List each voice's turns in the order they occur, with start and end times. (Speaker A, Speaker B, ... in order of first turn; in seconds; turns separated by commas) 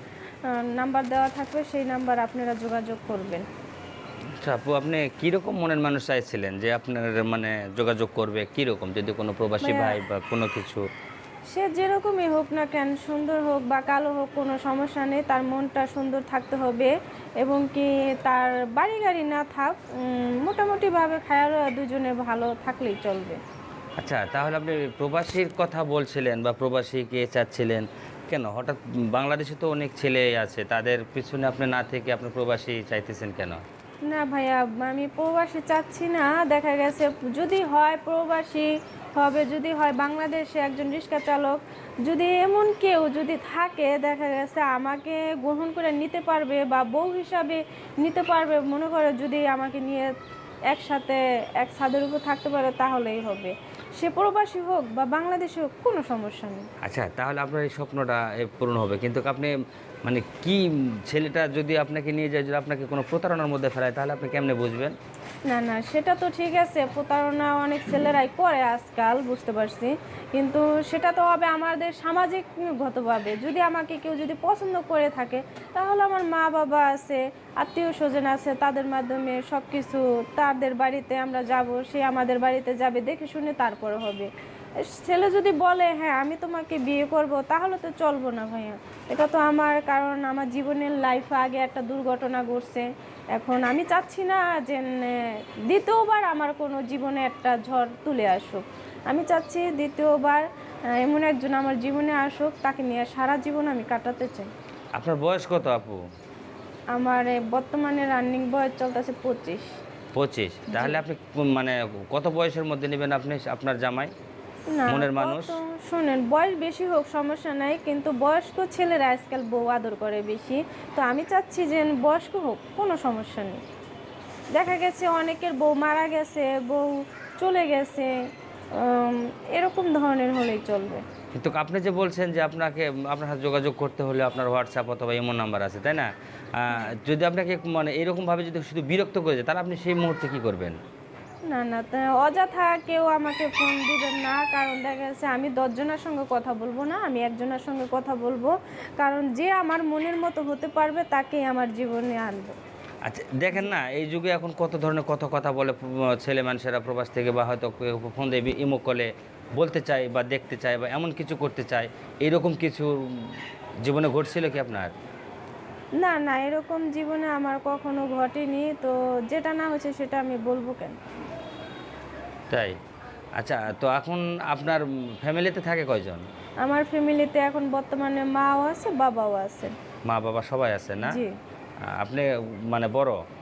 Speaker A: 0.4-3.5, Speaker B: 4.4-10.8, Speaker A: 9.6-10.0, Speaker A: 11.5-23.4, Speaker B: 24.0-33.6, Speaker A: 34.0-50.1, Speaker A: 50.7-56.7, Speaker B: 56.8-64.9, Speaker A: 65.5-84.3, Speaker A: 84.8-104.5, Speaker B: 105.0-106.0, Speaker A: 106.9-109.7, Speaker B: 110.1-114.1, Speaker A: 110.7-111.0, Speaker A: 114.7-123.6, Speaker B: 114.9-115.6, Speaker A: 124.5-131.0, Speaker B: 131.3-140.8, Speaker A: 141.5-152.6, Speaker B: 153.0-164.9, Speaker A: 166.0-171.0, Speaker B: 172.5-172.8, Speaker B: 173.4-176.2, Speaker A: 176.6-179.7, Speaker B: 180.1-181.2, Speaker A: 181.0-181.3, Speaker B: 181.9-183.2